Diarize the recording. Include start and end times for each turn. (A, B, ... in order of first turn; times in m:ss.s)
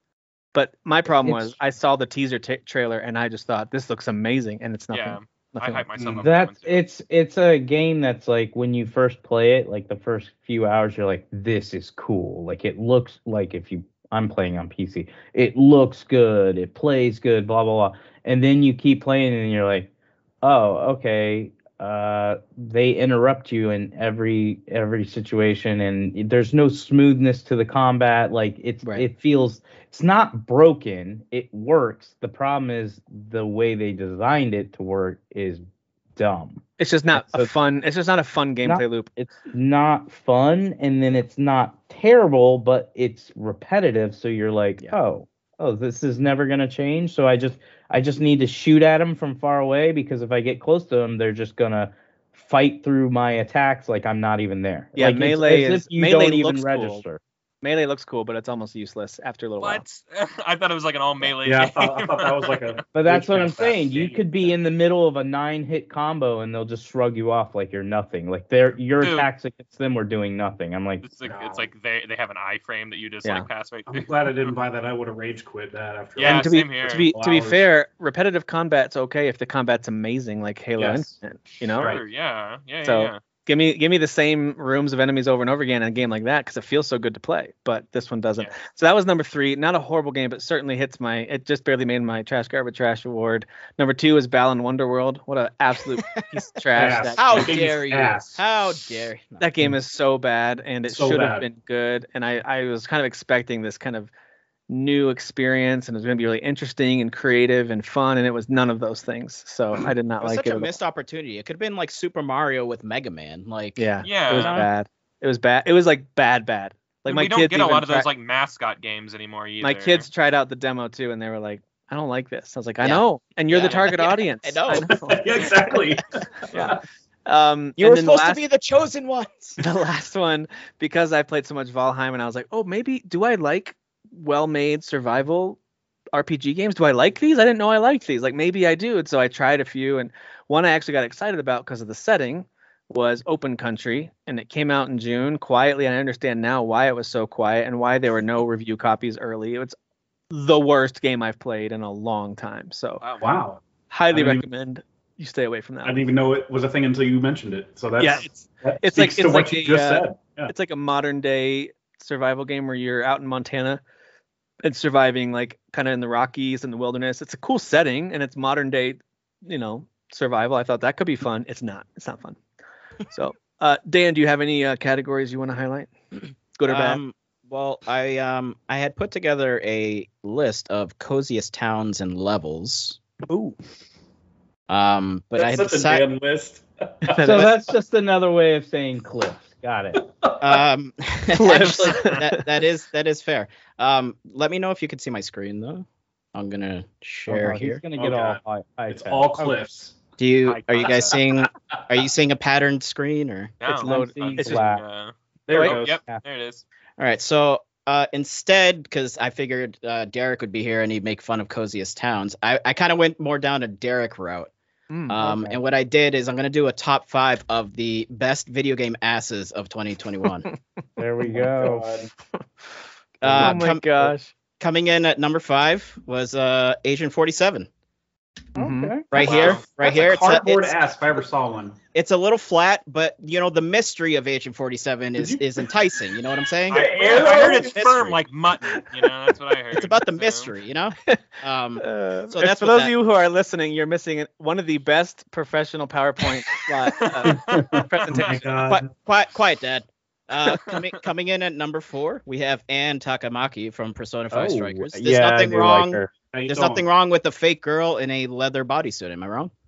0:00.5-0:05.8 A
0:01.2-0:01.6 B
0:04.9-0:06.8 C
0:06.0-0:06.3 D
0:06.2-0:19.9 B
0:20.4-0:35.6 B
0:36.2-0:36.6 B
0:36.8-0:39.1 A
0:37.1-0:37.5 B
0:38.6-0:57.2 B
0:55.0-0:57.0 A
0:57.6-0:59.8 A
0:59.6-1:02.8 C
1:01.4-1:04.2 D
1:02.9-1:11.0 B
1:09.0-1:09.3 C
1:11.0-1:14.5 C
1:11.2-1:11.7 D
1:13.9-1:17.7 D
1:16.2-1:17.1 C
1:16.2-1:22.0 A
1:20.8-1:21.2 D
1:21.8-1:23.2 C
1:22.8-1:37.6 A
1:36.7-1:38.4 D
1:37.2-1:39.4 E
1:39.4-1:44.1 A
1:40.9-1:41.4 D
1:44.7-1:50.7 A
1:50.2-1:54.6 E
1:53.8-1:58.1 A
1:54.0-1:54.6 C
1:57.0-2:00.1 C
1:59.6-2:05.4 A
2:02.8-2:05.0 E
2:04.9-2:06.8 D
2:06.5-2:08.4 A
2:07.8-2:09.6 E
2:09.6-2:15.6 A
2:16.1-2:29.8 A
2:30.3-2:33.0 A
2:33.0-2:33.3 C
2:33.2-2:34.4 D
2:33.9-2:36.0 A
2:35.8-2:40.5 D
2:38.0-2:43.8 A
2:44.6-2:52.4 A
2:53.1-2:55.9 A
2:56.6-2:57.0 A
2:56.7-3:03.0 E
3:03.3-3:03.6 A
3:04.7-3:06.1 E
3:05.3-3:07.5 D
3:07.1-3:07.5 A
3:07.2-3:10.0 B
3:09.9-3:10.6 D
3:10.4-3:17.8 E
3:11.3-3:12.4 A
3:17.3-3:19.6 B
3:17.9-3:20.0 D
3:20.2-3:23.5 E
3:20.4-3:21.1 C
3:21.5-3:21.8 D
3:23.6-3:26.6 C
3:23.7-3:24.6 A
3:23.8-3:24.8 B
3:25.5-3:26.1 D
3:25.5-3:25.8 A
3:27.0-3:34.5 E
3:34.9-3:35.2 A
3:35.1-3:40.5 E
3:35.2-3:35.6 B
3:41.0-3:42.1 B
3:41.5-3:42.1 D
3:43.2-3:47.7 E
3:43.2-3:44.3 A
3:48.5-3:48.9 A
3:48.6-3:49.1 B
3:49.1-3:50.7 E
3:49.1-3:49.6 C
3:49.2-3:51.8 D
3:51.9-3:58.2 E
3:55.2-3:55.4 D
3:56.7-4:00.5 C
3:56.7-3:57.8 D
3:59.7-4:02.9 E
4:01.8-4:08.5 A
4:07.0-4:08.3 C
4:07.4-4:07.8 B
4:08.1-4:08.9 D
4:08.7-4:19.5 E
4:14.3-4:16.1 B
4:16.3-4:16.8 D